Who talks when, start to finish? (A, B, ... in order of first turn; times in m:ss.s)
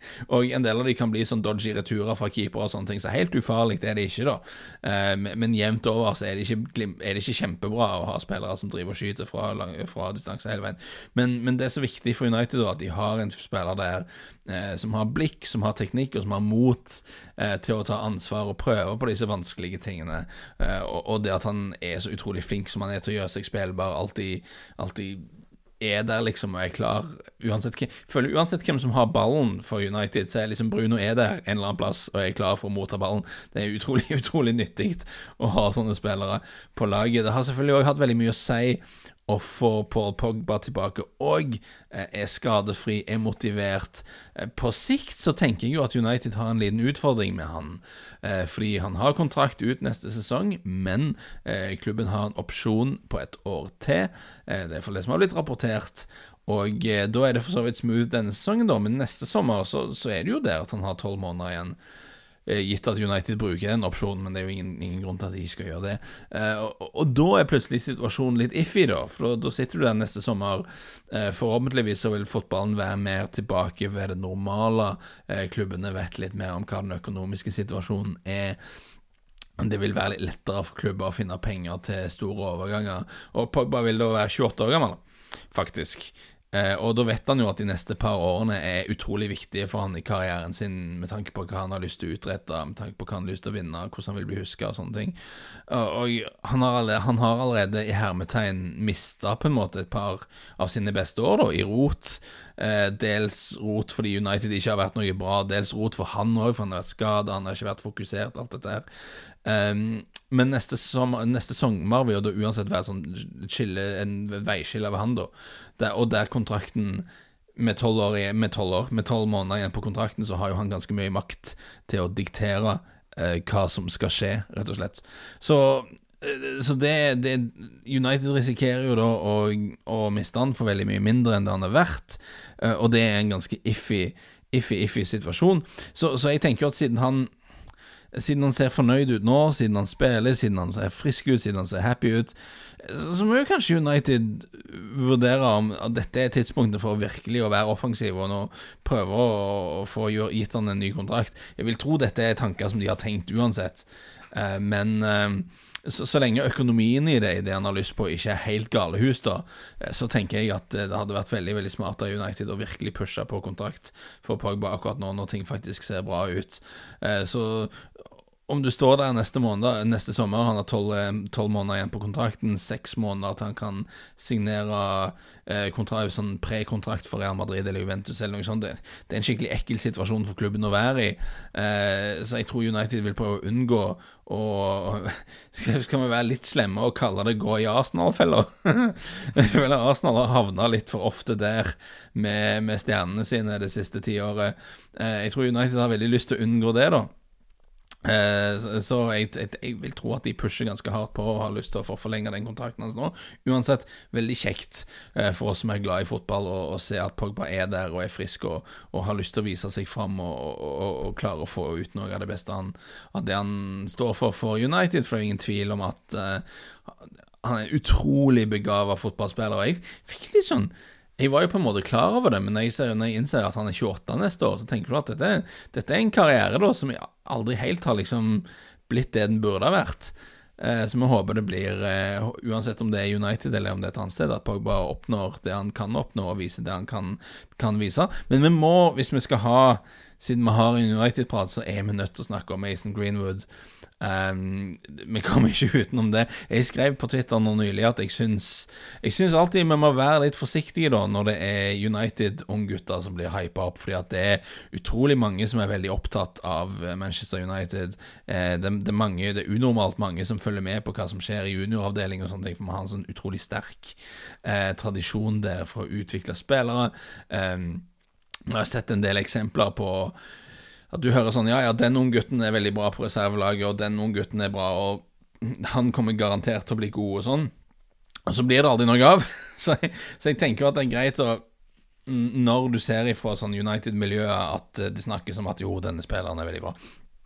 0:00.3-0:25.3 A
0:25.8-1:01.8 A
1:02.5-1:18.6 A
1:19.6-1:35.2 A
1:35.7-1:48.9 A
1:49.4-1:57.1 A
1:57.6-2:17.3 A
2:18.1-2:47.8 A
2:48.5-3:17.1 A
3:18.0-3:36.9 A
3:37.4-4:03.5 A
4:04.0-4:27.9 A
4:28.5-4:30.2 A
4:30.9-4:37.5 A
4:38.3-4:41.4 A
4:42.1-4:46.8 A